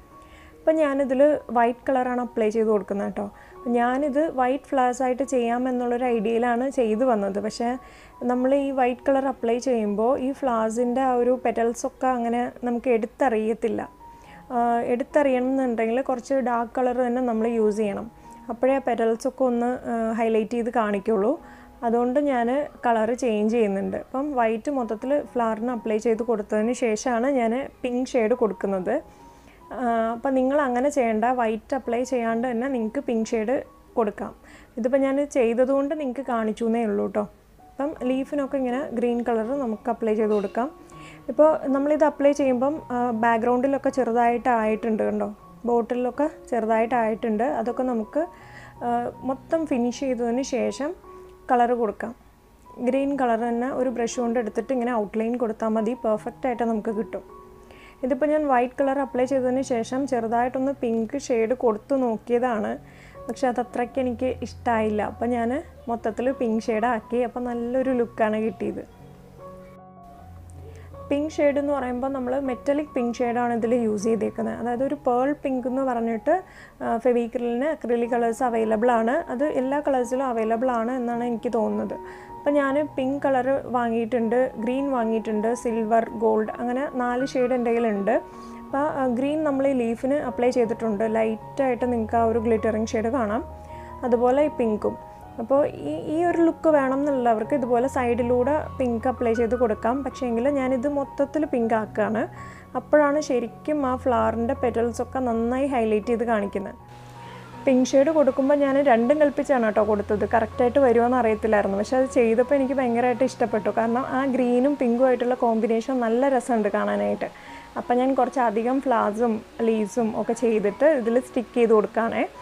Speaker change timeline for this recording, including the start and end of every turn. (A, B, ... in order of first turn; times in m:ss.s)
0:00.6-0:07.7 A
0:08.2-0:13.9 A
0:14.5-0:29.0 A
0:29.7-0:40.7 A
0:41.3-0:48.3 A
0:48.8-0:50.9 A
0:51.5-0:52.2 A
0:52.8-0:57.2 A
0:58.0-1:08.8 A
1:11.1-1:28.2 A
1:28.7-1:33.4 A
1:34.0-1:46.7 A
1:47.6-2:02.3 A